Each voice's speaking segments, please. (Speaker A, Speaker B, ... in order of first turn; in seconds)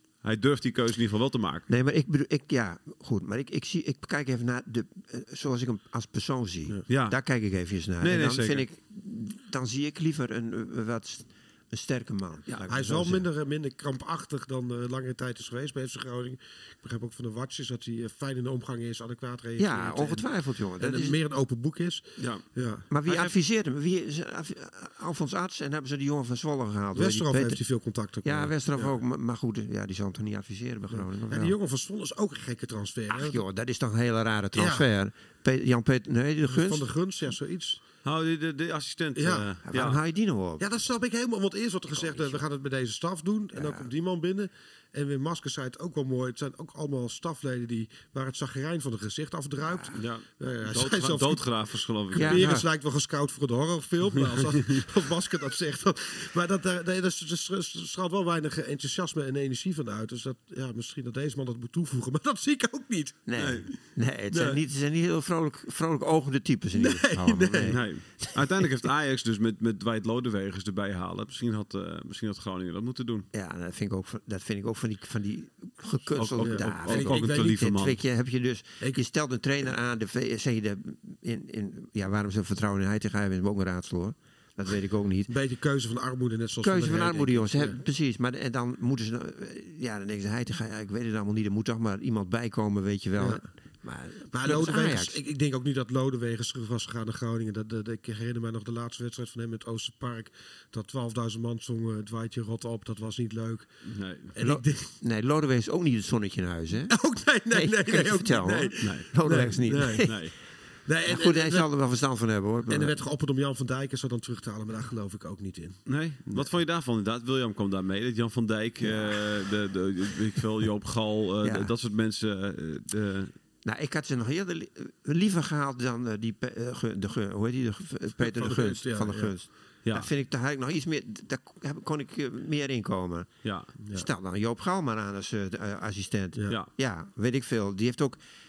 Speaker A: 0.2-1.7, 6.9-7.2, 8.0-8.7, 22.2-22.5, 23.1-23.4, 38.0-40.0, 49.9-52.5, 54.5-54.8, 63.4-63.7, 67.6-73.3, 76.2-78.0, 103.8-104.4, 108.8-109.3, 110.0-110.3, 115.9-123.3, 133.4-133.7
Speaker B: 1.7-13.3, 19.6-21.2, 22.9-27.6, 28.2-31.6, 33.1-36.9, 39.7-40.6, 41.9-42.4, 43.5-43.9, 52.1-52.7, 63.3-68.4, 73.3-85.3, 86.6-95.2, 104.4-107.0, 107.5-110.2, 111.1-112.9, 118.8-119.3, 121.4-121.7, 123.7-133.3, 133.9-138.2
Speaker C: 12.7-22.9, 26.9-29.0, 30.9-33.4, 34.5-34.9, 36.4-37.8, 39.1-39.5, 40.6-51.4, 52.1-63.2, 66.8-67.8, 76.4-77.6, 85.3-87.8, 93.2-93.5, 94.3-103.7, 104.3-104.9, 106.9-110.1, 110.9-111.7, 112.7-116.5, 128.2-129.3, 133.8-134.1